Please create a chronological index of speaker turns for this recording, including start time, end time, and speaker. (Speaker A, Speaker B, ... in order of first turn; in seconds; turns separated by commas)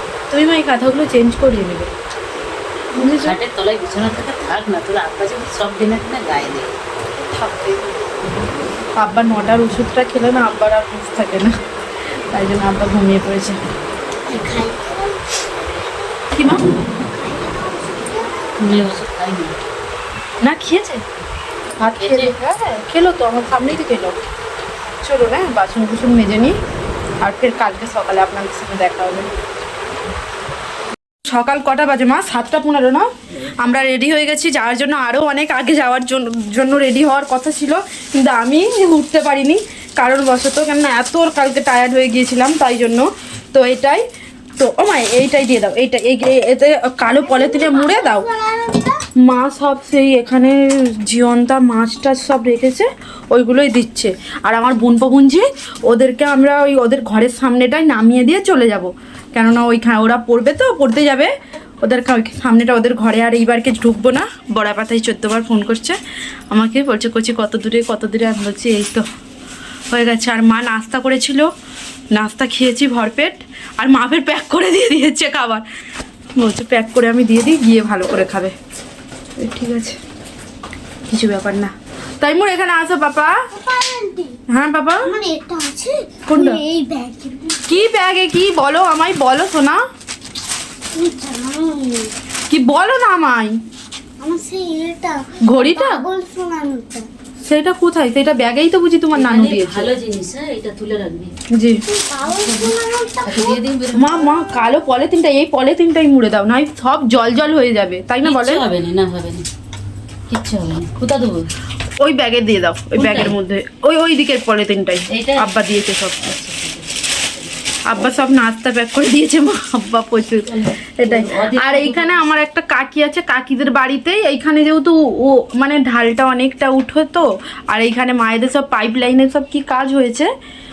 Speaker A: 0.3-1.9, Speaker A: 2.9-3.4, Speaker B: 3.2-6.8, Speaker A: 7.2-8.0, Speaker A: 9.0-11.5, Speaker A: 12.3-13.6, Speaker C: 14.2-16.2, Speaker A: 16.3-16.6, Speaker C: 16.9-18.6, Speaker B: 18.6-19.6, Speaker A: 20.4-21.0, Speaker A: 21.8-24.3, Speaker B: 22.0-22.3, Speaker A: 25.0-26.6, Speaker A: 27.2-29.3, Speaker A: 31.2-33.1, Speaker A: 33.6-44.0, Speaker A: 44.6-48.3, Speaker C: 47.0-49.1, Speaker A: 49.2-66.0, Speaker A: 66.5-69.0, Speaker A: 69.9-71.5, Speaker A: 72.1-75.7, Speaker A: 76.4-78.5, Speaker A: 79.4-80.0, Speaker A: 81.1-83.3, Speaker C: 83.5-84.4, Speaker A: 84.5-85.2, Speaker C: 85.0-87.8, Speaker A: 86.3-86.6, Speaker A: 87.7-89.8, Speaker C: 90.9-92.2, Speaker A: 92.5-93.6, Speaker C: 94.2-97.1, Speaker A: 95.4-96.0, Speaker A: 97.4-99.9, Speaker B: 99.1-101.3, Speaker A: 101.5-101.8, Speaker C: 101.9-103.6, Speaker B: 102.3-104.2, Speaker A: 103.9-108.6, Speaker B: 108.2-109.5, Speaker B: 110.3-111.5, Speaker A: 112.0-116.3, Speaker B: 113.0-113.3, Speaker B: 115.1-115.5, Speaker B: 116.2-116.9, Speaker A: 117.9-130.3, Speaker B: 120.5-122.5